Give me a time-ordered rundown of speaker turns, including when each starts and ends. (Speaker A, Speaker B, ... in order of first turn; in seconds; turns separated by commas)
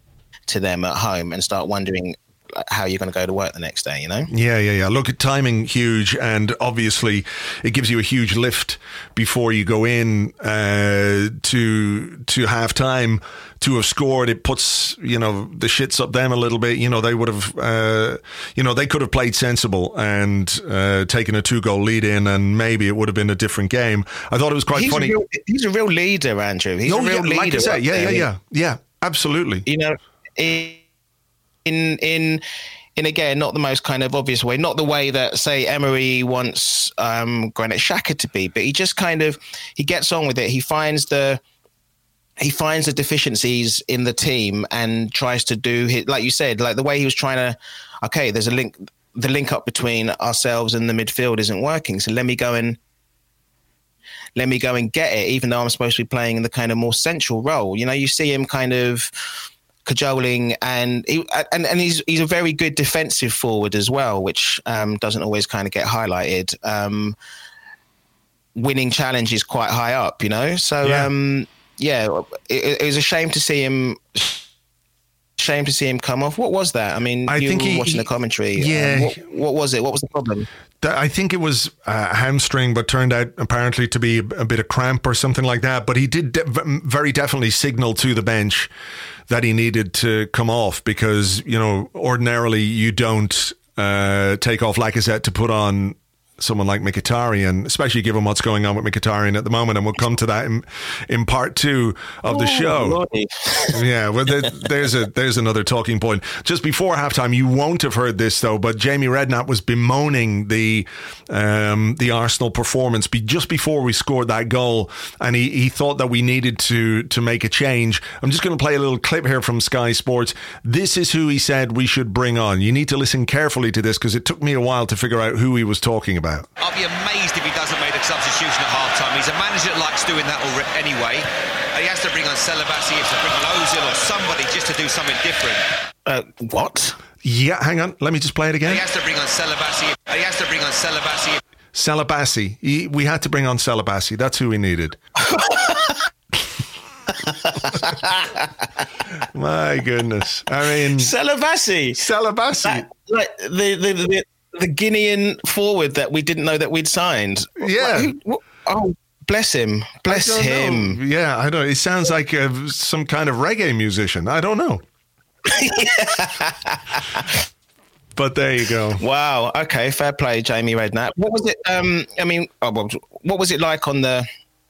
Speaker A: 0.5-4.3, Speaker B: 4.3-25.2, Speaker A: 24.7-28.3, Speaker B: 26.8-29.6, Speaker A: 29.6-30.8, Speaker A: 31.6-32.4, Speaker A: 33.0-41.4, Speaker A: 42.4-52.8, Speaker A: 54.4-59.1, Speaker A: 59.8-67.2, Speaker A: 68.5-74.4, Speaker B: 70.8-71.1, Speaker A: 75.4-80.5, Speaker B: 77.3-79.2, Speaker B: 80.8-88.7, Speaker B: 89.3-103.0, Speaker A: 102.3-103.8, Speaker B: 103.7-126.5, Speaker C: 126.6-135.7, Speaker A: 136.1-137.0, Speaker B: 137.2-138.8, Speaker C: 138.7-141.4, Speaker B: 141.7-145.0, Speaker A: 145.2-146.0, Speaker A: 147.1-148.9, Speaker B: 149.3-151.1, Speaker A: 151.0-152.0, Speaker B: 152.0-152.8, Speaker A: 152.6-161.0, Speaker B: 157.6-158.1, Speaker B: 160.1-164.8, Speaker A: 165.4-167.4, Speaker B: 168.2-169.0, Speaker A: 169.0-174.2